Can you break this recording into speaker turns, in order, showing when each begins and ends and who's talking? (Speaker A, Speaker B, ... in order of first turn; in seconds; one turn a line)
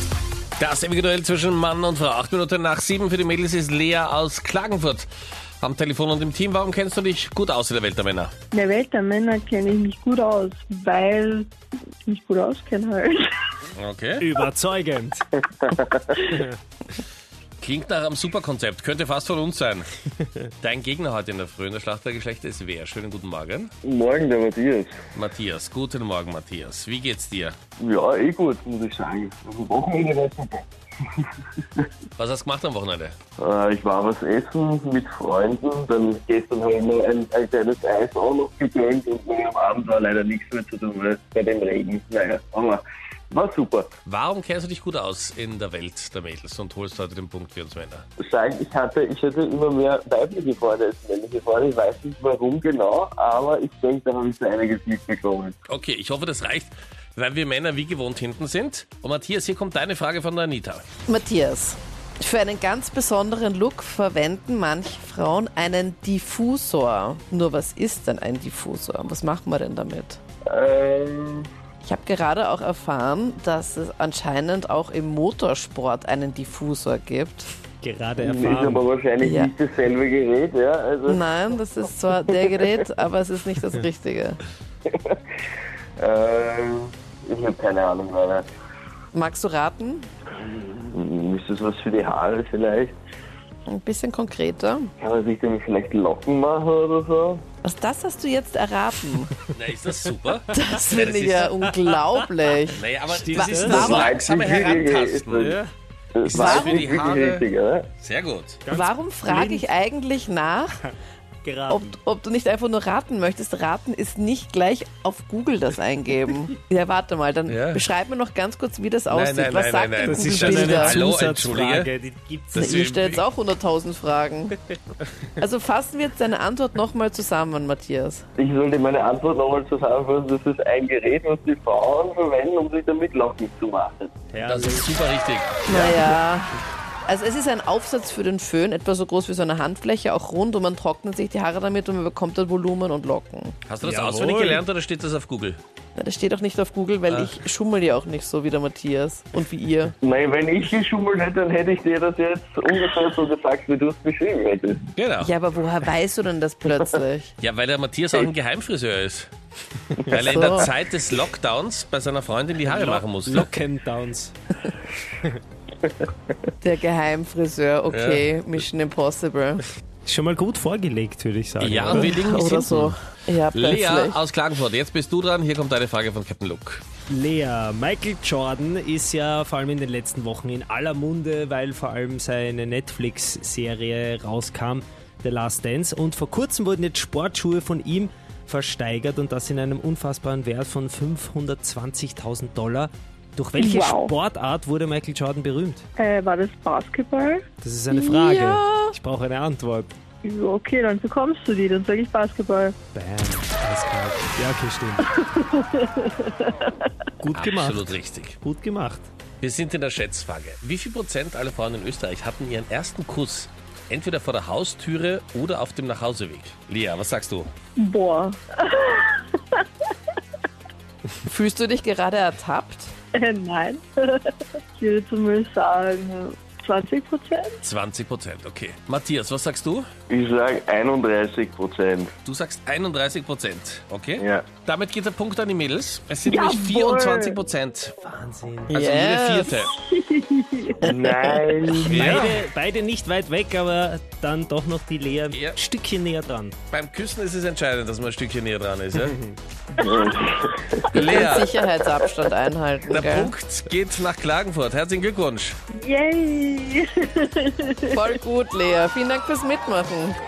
Speaker A: 0.6-5.1
Speaker A: 5.6-8.3
Speaker B: 8.5-11.5
Speaker B: 12.1-13.3
Speaker A: 13.8-14.3
Speaker C: 14.2-15.2
Speaker D: 15.5-16.2
Speaker A: 17.6-19.9
Speaker A: 20.6-23.7
Speaker D: 23.8-25.0
Speaker A: 25.1-27.6
Speaker D: 27.8-30.7
Speaker A: 32.2-33.2
Speaker D: 33.4-43.9
Speaker A: 44.1-48.0
Speaker D: 48.2-55.6
Speaker A: 55.7-60.8
Speaker E: 61.1-70.2
Speaker D: 70.5-71.5
Speaker E: 71.8-77.5
Speaker C: 77.8-78.8
Speaker D: 78.2-81.2
Speaker E: 79.2-79.5
Speaker E: 81.1-84.4
Speaker D: 82.4-82.6
Speaker D: 84.9-85.2
Speaker D: 86.0-88.5
Speaker E: 89.1-90.1
Speaker D: 90.7-93.0
Speaker E: 93.7-94.9
Speaker D: 95.0-97.4
Speaker E: 97.6-99.3
Speaker A: 99.5-101.5
Speaker E: 100.5-102.8
Speaker C: 101.5-102.3
Speaker A: 102.8-105.5
Speaker C: 103.1-104.1
Speaker E: 103.3-104.0
Speaker D: 103.8-105.6
Speaker C: 105.4-105.7
Speaker D: 106.2-107.9
Speaker A: 106.2-107.5
Speaker E: 106.3-106.8
Speaker A: 108.0-108.6
Speaker C: 108.7-109.7
Speaker E: 108.8-110.7
Speaker C: 111.4-112.0
Speaker E: 111.7-120.9
Speaker C: 116.3-116.5
Speaker A: 117.5-117.9
Speaker A: 119.1-121.9
Speaker C: 120.0-122.8
Speaker A: 122.5-123.2
Speaker E: 122.6-124.5
Speaker E: 125.4-128.2
Speaker D: 128.4-134.1
Speaker C: 134.3-134.9
Speaker A: 134.5-135.6
Speaker E: 135.7-136.5
Speaker C: 135.7-136.2
Speaker E: 137.1-143.6
Speaker A: 143.7-145.6
Speaker C: 143.8-144.7
Speaker E: 146.0-149.9
Speaker A: 147.1-147.4
Speaker D: 150.0-154.9
Speaker A: 155.0-155.3
Speaker E: 155.2-157.3
Speaker A: 157.4-159.3
Speaker A: 160.1-163.5
Speaker E: 160.3-160.7
Speaker C: 162.7-164.3
Speaker E: 166.6-169.6
Speaker A: 167.9-168.3
Speaker C: 170.1-172.2
Speaker A: 171.6-172.9
Speaker E: 172.1-174.2
Speaker A: 173.5-176.8
Speaker C: 177.1-195.8
Speaker B: 193.6-194.1
Speaker B: 196.0-197.4
Speaker C: 197.6-199.9
Speaker E: 197.9-198.9
Speaker B: 200.2-202.8
Speaker C: 202.9-205.1
Speaker B: 205.1-206.9
Speaker C: 207.2-209.1
Speaker A: 207.3-208.4
Speaker A: 209.4-217.5
Speaker B: 217.8-219.7
Speaker E: 221.3-222.9
Speaker B: 223.2-227.6
Speaker A: 227.6-229.9
Speaker D: 230.1-232.1
Speaker A: 232.2-237.9
Speaker D: 234.2-234.5
Speaker B: 236.2-237.4
Speaker C: 238.0-238.8
Speaker A: 238.7-239.8
Speaker E: 238.8-239.4
Speaker B: 239.9-240.8
Speaker D: 240.8-242.1
Speaker C: 241.8-246.5
Speaker A: 241.9-242.4
Speaker A: 245.3-245.6
Speaker A: 246.7-249.2
Speaker D: 249.8-251.2
Speaker A: 250.9-251.5
Speaker E: 251.0-253.3
Speaker A: 252.9-255.6
Speaker B: 255.7-258.0
Speaker E: 257.9-260.2